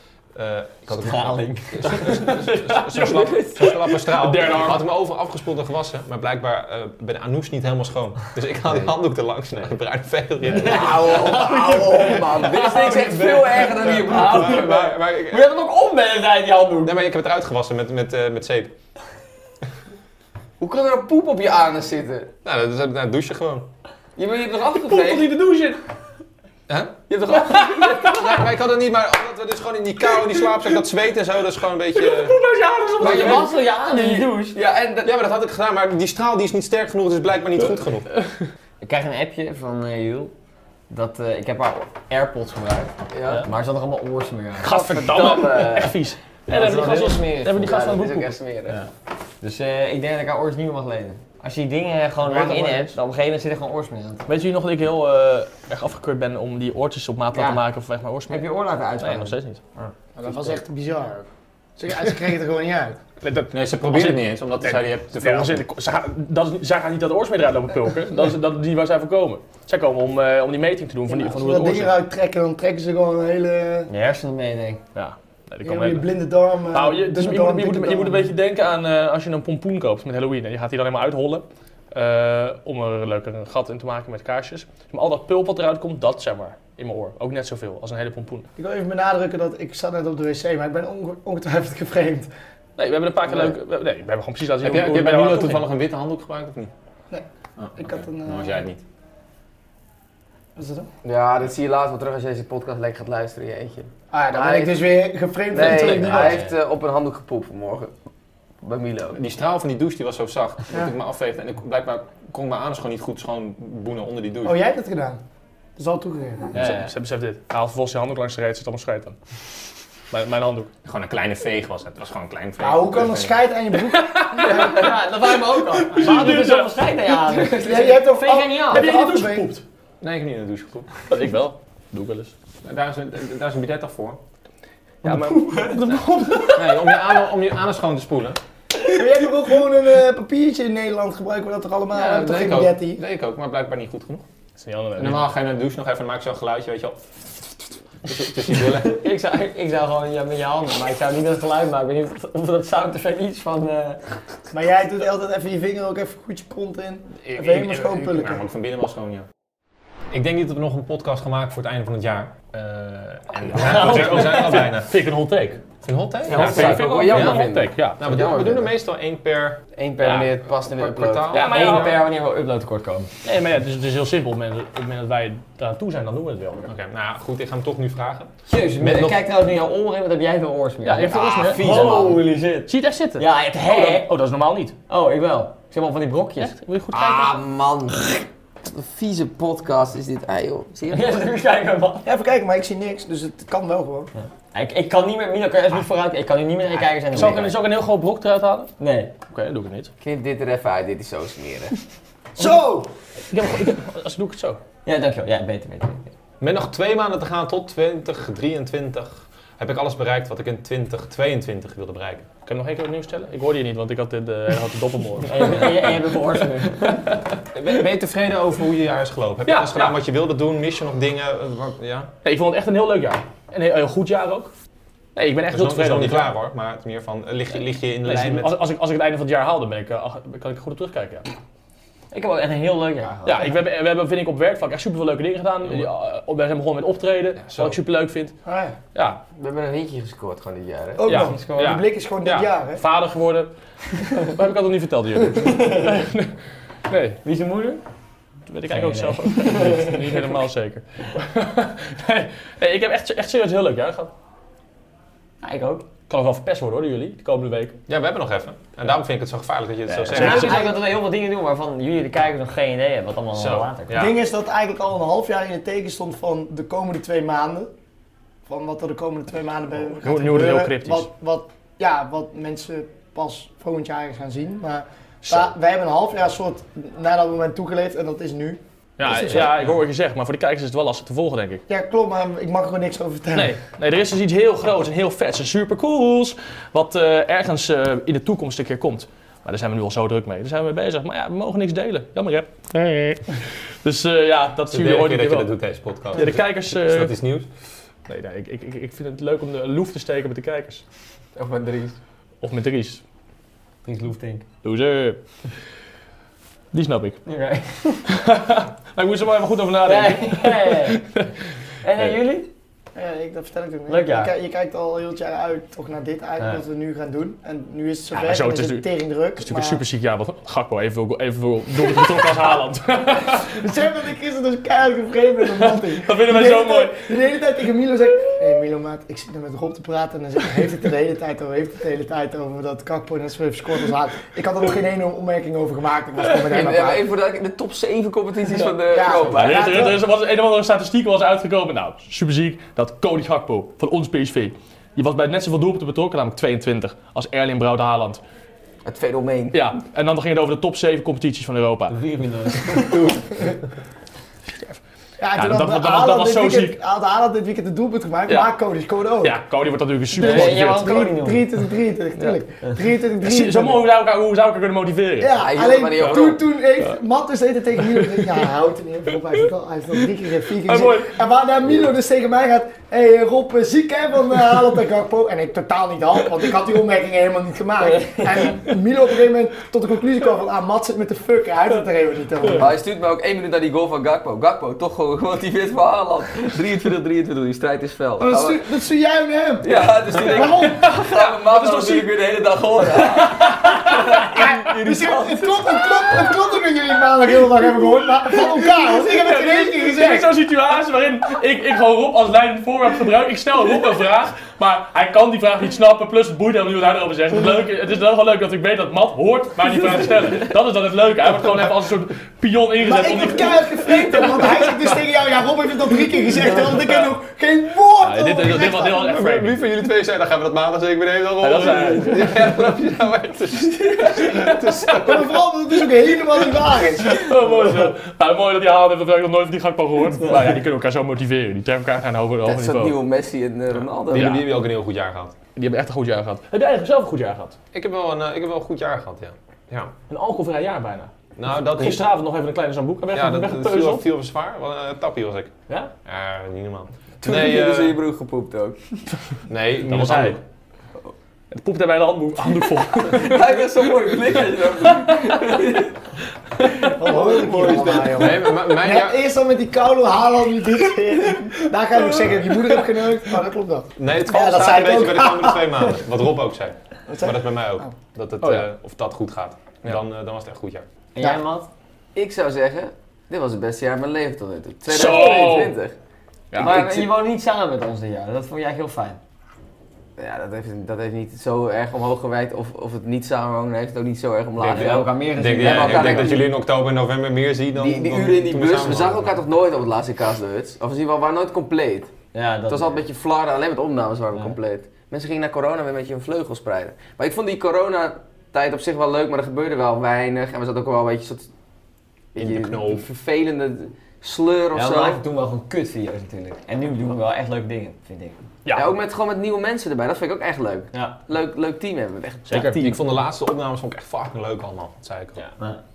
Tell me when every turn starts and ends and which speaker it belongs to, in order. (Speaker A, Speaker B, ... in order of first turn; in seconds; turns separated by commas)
Speaker A: 0.3-11.4, Speaker B: 0.9-2.2, Speaker C: 1.9-4.8, Speaker B: 10.6-16.9, Speaker D: 10.6-14.8, Speaker A: 13.7-15.5, Speaker A: 16.8-18.7, Speaker D: 20.6-22.3, Speaker A: 22.4-23.7, Speaker D: 24.2-25.3, Speaker C: 24.8-25.8, Speaker A: 26.7-27.1, Speaker D: 27.1-28.5, Speaker A: 27.6-32.4, Speaker C: 32.0-33.5, Speaker B: 33.0-34.6, Speaker D: 33.0-35.2, Speaker A: 35.0-38.1, Speaker B: 38.8-40.3, Speaker B: 40.9-44.7, Speaker D: 43.1-43.5, Speaker C: 44.6-48.4, Speaker D: 44.6-48.8, Speaker A: 45.1-45.4, Speaker B: 49.4-54.3, Speaker C: 52.2-52.9, Speaker C: 54.3-58.5, Speaker B: 57.3-57.6, Speaker B: 58.3-59.9, Speaker C: 59.0-59.6, Speaker E: 60.2-63.0, Speaker C: 63.2-72.0, Speaker A: 63.5-65.7, Speaker E: 71.1-73.9, Speaker B: 73.9-74.8, Speaker C: 75.0-76.1, Speaker E: 75.6-78.3, Speaker C: 76.7-88.5, Speaker E: 88.6-92.3, Speaker C: 92.8-95.7, Speaker A: 94.6-96.7, Speaker A: 97.6-98.8, Speaker E: 97.8-98.6, Speaker E: 100.6-100.9, Speaker D: 101.0-104.8, Speaker E: 104.1-106.4, Speaker D: 105.5-107.9, Speaker C: 105.6-106.3, Speaker D: 108.6-109.2, Speaker A: 109.1-114.5, Speaker E: 114.4-115.2, Speaker E: 115.8-116.5, Speaker B: 116.5-116.9, Speaker C: 116.5-119.2, Speaker C: 120.1-120.7, Speaker A: 120.8-123.4, Speaker E: 122.6-124.7, Speaker C: 123.9-124.8, Speaker B: 124.4-128.9, Speaker C: 125.7-126.8, Speaker D: 127.3-127.9, Speaker E: 127.5-129.5, Speaker C: 128.7-129.6, Speaker A: 130.0-130.9, Speaker C: 131.1-132.3, Speaker A: 132.7-134.2, Speaker B: 135.0-136.5, Speaker C: 135.0-136.8, Speaker A: 136.5-138.4, Speaker E: 138.9-143.0, Speaker A: 141.9-144.2, Speaker C: 144.6-145.3, Speaker A: 145.0-147.1, Speaker A: 148.0-149.1, Speaker B: 148.8-154.0, Speaker E: 154.5-158.4, Speaker A: 157.2-159.3, Speaker A: 160.1-164.9, Speaker C: 163.5-165.6, Speaker A: 165.8-172.0, Speaker B: 166.3-166.8, Speaker D: 166.3-168.7, Speaker C: 166.3-168.0, Speaker D: 169.7-171.4, Speaker C: 170.0-170.3, Speaker C: 171.3-172.0, Speaker B: 171.4-173.1, Speaker C: 173.2-176.7, Speaker A: 176.7-179.2, Speaker B: 178.5-184.1, Speaker C: 180.8-181.9, Speaker D: 181.1-182.2, Speaker C: 182.7-184.8, Speaker B: 184.9-186.6, Speaker C: 186.4-187.4, Speaker D: 186.9-191.2, Speaker B: 190.9-192.1, Speaker E: 192.1-194.1, Speaker B: 194.2-197.5, Speaker C: 197.1-198.7, Speaker B: 198.8-199.1, Speaker C: 199.3-199.9, Speaker D: 200.0-201.8, Speaker E: 202.4-202.9, Speaker C: 203.3-204.6, Speaker B: 204.8-206.1, Speaker A: 206.4-212.3, Speaker C: 212.5-217.2, Speaker B: 215.2-217.1, Speaker A: 217.5-222.1, Speaker C: 219.5-220.0, Speaker C: 222.2-224.5, Speaker C: 225.2-226.3, Speaker A: 225.5-228.6, Speaker C: 228.1-231.3, Speaker B: 232.1-233.5, Speaker C: 233.2-238.4, Speaker A: 237.4-237.8, Speaker E: 238.4-238.8, Speaker C: 238.9-239.2, Speaker D: 239.4-241.1, Speaker E: 241.0-242.8, Speaker C: 241.0-241.8, Speaker B: 241.1-241.8, Speaker C: 242.8-246.3, Speaker B: 245.4-245.9, Speaker C: 246.9-247.2, Speaker B: 247.2-247.8, Speaker C: 248.5-254.1, Speaker B: 248.7-250.3, Speaker B: 255.4-255.9, Speaker C: 256.1-257.8, Speaker A: 257.9-260.6, Speaker C: 259.9-260.6, Speaker B: 260.1-264.1, Speaker E: 260.3-260.8, Speaker A: 263.4-264.1, Speaker E: 263.9-267.7, Speaker E: 268.5-279.5, Speaker C: 270.0-271.1, Speaker C: 279.0-281.6, Speaker E: 281.7-283.6, Speaker C: 283.4-295.5, Speaker A: 294.7-297.5, Speaker C: 296.2-297.1, Speaker C: 298.1-300.8, Speaker D: 301.4-302.0, Speaker C: 302.4-303.0, Speaker B: 303.9-304.4, Speaker C: 304.6-305.2, Speaker C: 306.7-307.2, Speaker B: 307.3-308.1, Speaker C: 308.1-311.3, Speaker B: 309.9-311.0, Speaker B: 311.8-312.5, Speaker E: 312.9-319.8, Speaker B: 313.9-314.3, Speaker C: 318.1-318.9, Speaker C: 319.4-323.6, Speaker E: 323.4-337.1, Speaker C: 325.4-327.0, Speaker D: 336.4-339.7, Speaker E: 338.9-340.0, Speaker C: 339.3-348.2, Speaker D: 348.9-349.6, Speaker C: 349.5-352.0, Speaker B: 351.9-353.1, Speaker D: 352.8-353.2, Speaker C: 354.5-354.8, Speaker E: 355.2-359.4, Speaker C: 355.4-356.8, Speaker C: 359.2-361.1, Speaker B: 360.1-361.4, Speaker E: 360.2-363.9, Speaker C: 363.2-365.4, Speaker E: 365.2-382.7, Speaker D: 365.4-366.4, Speaker C: 367.9-368.4, Speaker C: 370.6-371.1, Speaker D: 382.6-388.6, Speaker E: 388.2-390.9, Speaker D: 389.6-396.1, Speaker C: 390.4-392.1, Speaker C: 393.2-394.0, Speaker E: 394.3-400.4, Speaker C: 398.3-414.8, Speaker E: 412.8-419.1, Speaker C: 418.0-419.6, Speaker A: 419.0-425.2, Speaker C: 421.4-422.4, Speaker D: 424.0-424.9, Speaker E: 424.8-427.4, Speaker C: 427.0-432.9, Speaker D: 432.4-434.4, Speaker A: 433.8-435.3, Speaker C: 434.1-434.4, Speaker C: 435.6-437.6, Speaker A: 437.7-439.9, Speaker C: 440.1-441.1, Speaker A: 441.4-442.0, Speaker C: 441.7-444.1, Speaker A: 443.1-445.5, Speaker A: 446.1-448.0, Speaker D: 447.2-449.0, Speaker A: 449.5-450.4, Speaker C: 449.9-450.4, Speaker C: 451.5-453.9, Speaker D: 453.1-455.9, Speaker C: 454.8-455.7, Speaker C: 456.6-457.0, Speaker E: 456.9-465.9, Speaker D: 457.1-458.3, Speaker B: 457.5-457.9, Speaker A: 458.1-459.2, Speaker A: 464.0-470.9, Speaker E: 467.1-467.9, Speaker B: 471.1-471.7, Speaker D: 472.1-475.9, Speaker C: 474.9-475.8, Speaker C: 476.5-477.1, Speaker B: 476.6-479.2, Speaker D: 480.2-486.5, Speaker A: 484.6-489.4, Speaker B: 484.6-486.5, Speaker D: 487.8-492.1, Speaker B: 492.3-493.0, Speaker D: 492.7-501.5, Speaker D: 502.4-505.2, Speaker A: 502.4-503.1, Speaker B: 504.7-508.4, Speaker C: 508.6-508.9, Speaker D: 508.7-512.9, Speaker C: 512.5-513.0, Speaker A: 512.5-515.4, Speaker B: 515.4-515.8